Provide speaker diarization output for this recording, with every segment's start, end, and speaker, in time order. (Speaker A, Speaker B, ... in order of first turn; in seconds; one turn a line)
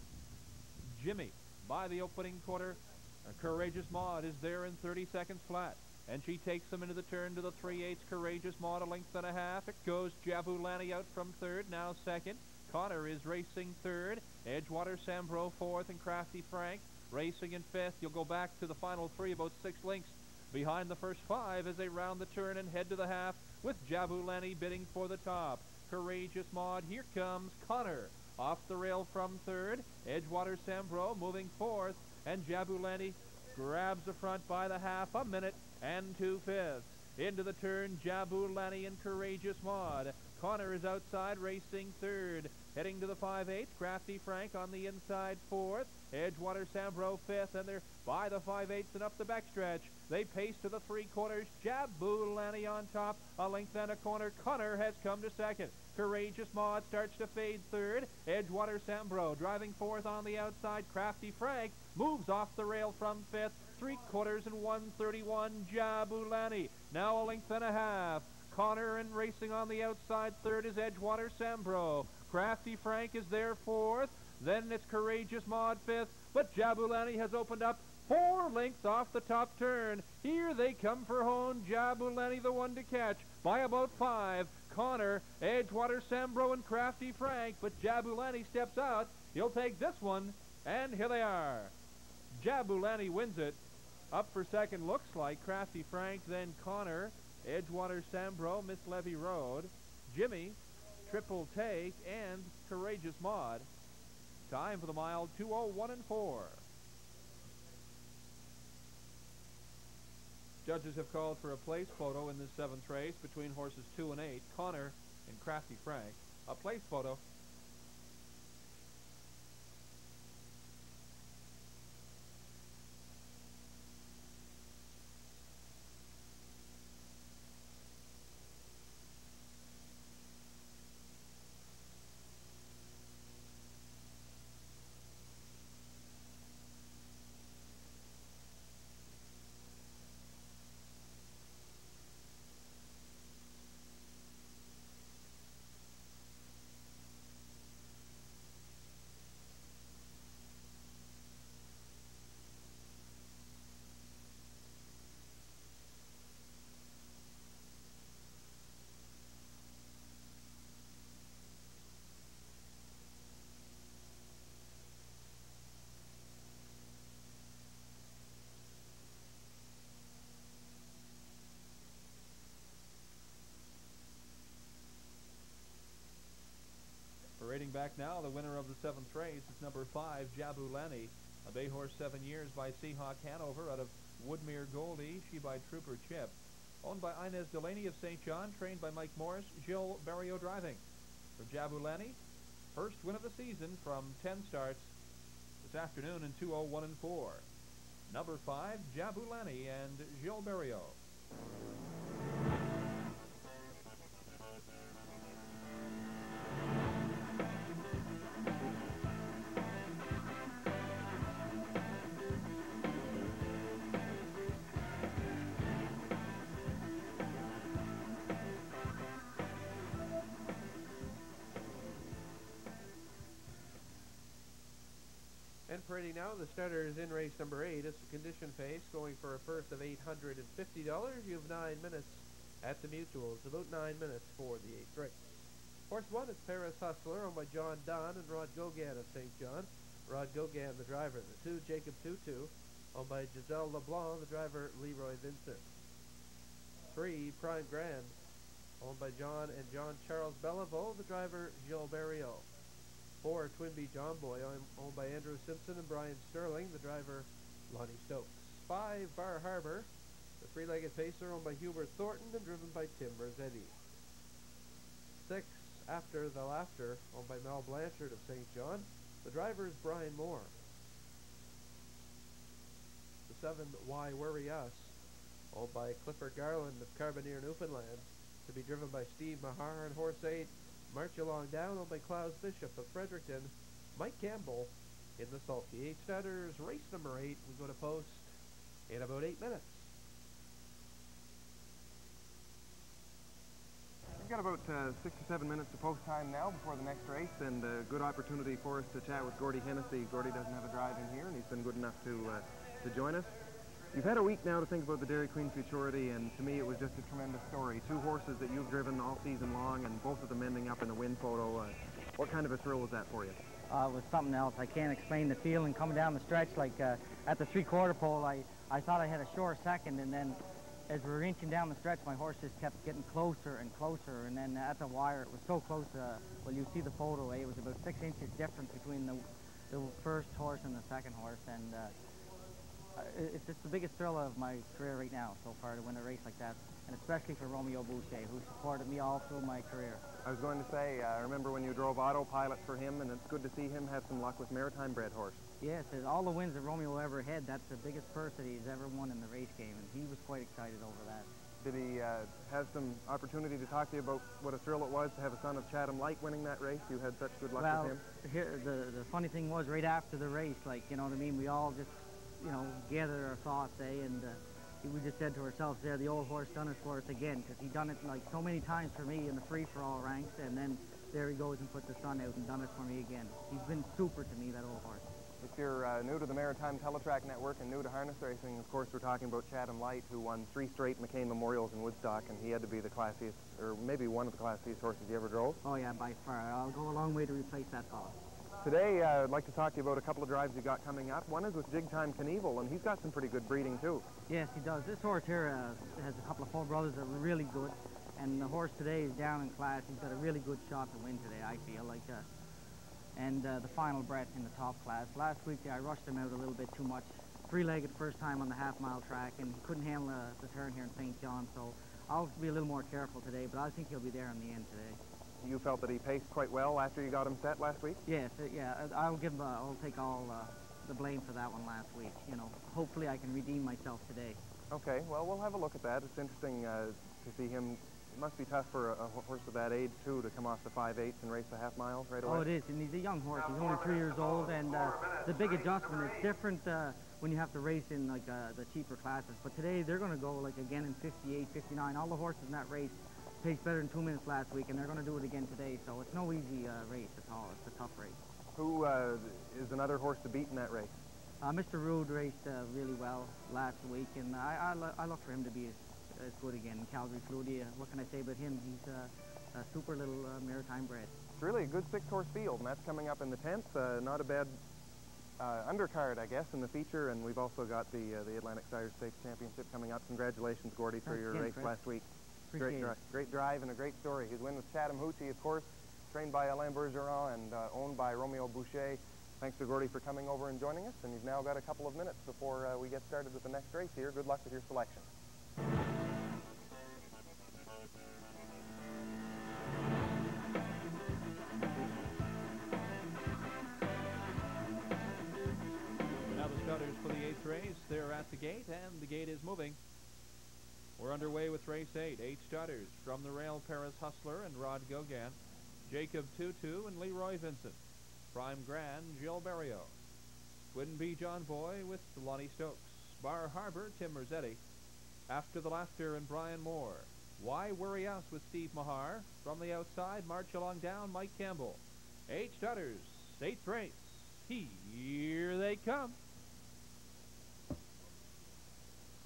Speaker A: 0.9-91.7
Speaker A: 92.3-93.6
Speaker A: 94.1-103.7
Speaker A: 104.5-106.6
Speaker A: 110.6-117.2
Speaker A: 177.4-190.8
Speaker A: 191.4-192.2
Speaker A: 192.7-194.9
Speaker A: 195.6-197.4
Speaker A: 198.1-201.0
Speaker B: 225.7-235.2
Speaker B: 235.9-245.7
Speaker B: 246.9-248.2
Speaker B: 248.8-252.5
Speaker B: 253.2-263.8
Speaker B: 265.2-270.5
Speaker B: 273.3-275.0
Speaker B: 275.5-288.3
Speaker B: 288.9-289.9
Speaker C: 294.2-303.3
Speaker C: 303.9-313.4
Speaker D: 313.7-331.9
Speaker D: 332.9-340.0
Speaker C: 340.2-345.4
Speaker D: 345.6-351.3
Speaker C: 351.6-358.0
Speaker D: 357.6-375.1
Speaker C: 375.4-385.6
Speaker D: 385.6-388.2
Speaker C: 388.6-394.0
Speaker D: 394.3-402.3
Speaker D: 403.1-415.0
Speaker C: 415.4-418.0
Speaker D: 418.1-424.4
Speaker C: 424.7-432.4
Speaker D: 432.2-448.2
Speaker C: 448.6-450.9
Speaker D: 451.4-461.1
Speaker C: 461.4-464.6
Speaker C: 465.4-472.0
Speaker D: 471.1-471.7
Speaker D: 472.5-473.0
Speaker C: 472.6-485.1
Speaker A: 496.3-499.8
Speaker A: 501.0-507.8
Speaker A: 508.3-509.9
Speaker A: 510.7-514.6
Speaker A: 515.3-526.1